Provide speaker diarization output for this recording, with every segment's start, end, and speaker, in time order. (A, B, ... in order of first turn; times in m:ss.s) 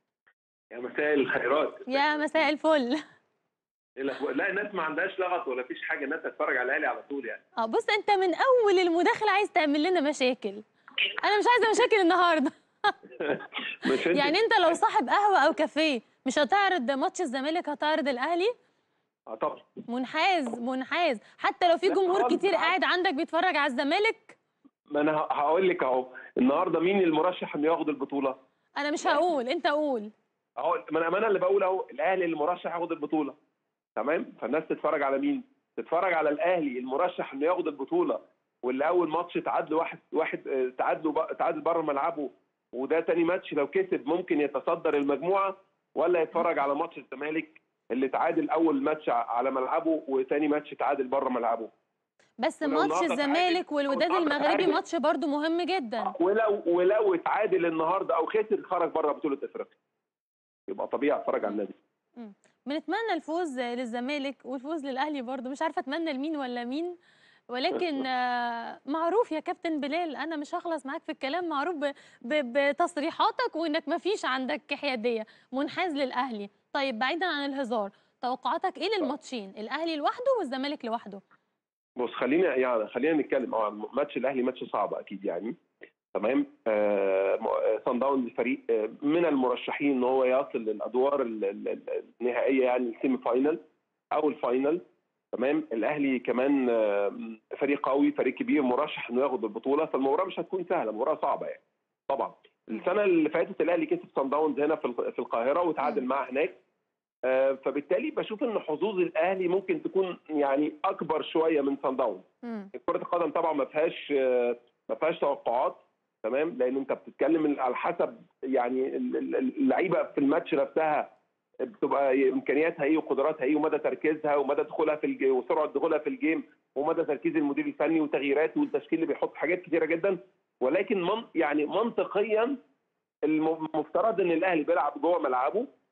0:00.7-0:02.3 A
0:01.9-0:03.0 B
0:04.0-0:07.4 A
0:07.6-0:10.6 B
0:11.2-0:13.0 B
0:13.2-0:14.4 A
0:14.1-0:18.5 B
0:19.3-0:19.7 A
0:19.9-0:24.4 B
0:21.9-0:22.7 A
0:24.9-0:28.4 A
0:28.8-0:30.1 B
0:30.6-0:33.4 A
0:34.0-0:51.7 A
0:52.4-0:56.1 B
0:52.6-0:54.8 A
0:56.0-0:59.7 A
1:00.7-1:01.7 A
1:02.2-1:07.0 B
1:07.5-1:21.2 B
1:22.0-1:25.6 A
1:26.1-1:33.6 A
1:34.1-1:34.8 A
1:35.3-1:46.6 A
1:47.2-2:01.1 A
1:52.4-1:52.7 B
2:01.6-2:12.6 A
2:13.3-2:15.7 A